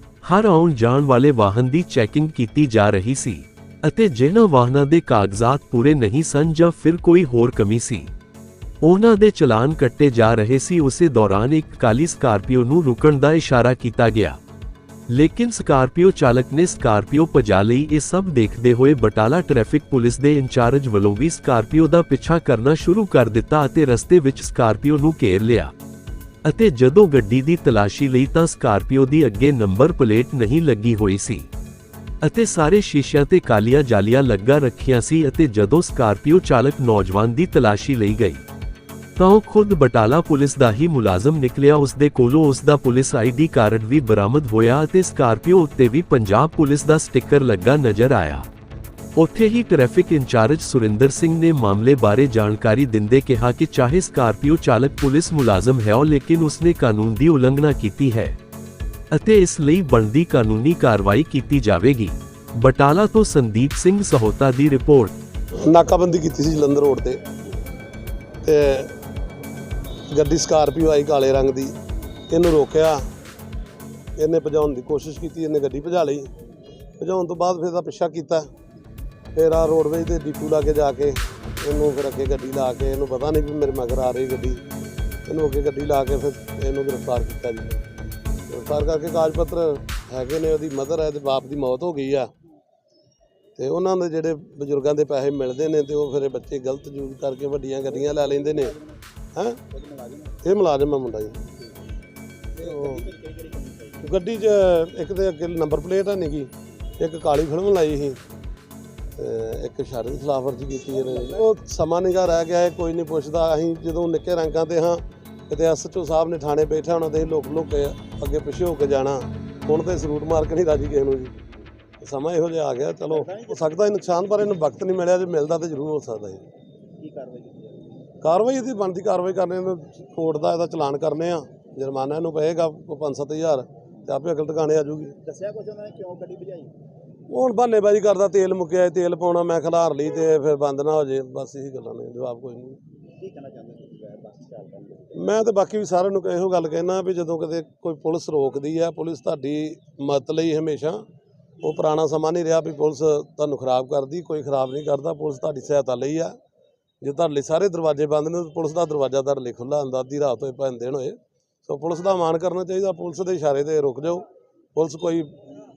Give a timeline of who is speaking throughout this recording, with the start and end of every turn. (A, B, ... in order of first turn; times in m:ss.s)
0:00.2-0:08.1 A
0:08.8-0:14.4 A
0:15.1-0:25.7 A
0:26.4-0:31.5 A
0:32.2-0:38.4 A
0:39.2-0:48.4 A
0:49.2-0:58.4 A
0:59.1-1:05.2 A
1:05.6-1:07.2 B
1:08.4-1:08.9 B
1:10.1-1:11.7 B
1:12.3-1:13.0 B
1:14.2-1:16.3 B
1:17.0-1:18.5 B
1:19.3-1:24.6 B
1:25.3-1:27.8 B
1:28.5-1:32.3 B
1:33.6-1:38.8 B
1:38.0-1:38.8 C
1:39.3-1:39.6 B
1:39.8-1:40.3 C
1:40.4-1:41.4 B
1:42.6-1:44.1 C
1:42.6-1:43.1 B
1:44.0-1:48.2 B
1:49.2-2:01.3 B
1:51.0-1:51.4 C
2:02.0-2:06.4 B
2:03.1-2:03.7 C
2:07.0-2:07.8 C
2:08.2-2:15.2 B
2:15.2-2:16.7 C
2:17.3-2:22.8 B
2:23.2-2:25.2 C
2:25.2-2:31.0 B
2:31.6-2:36.4 B
2:37.0-2:45.3 B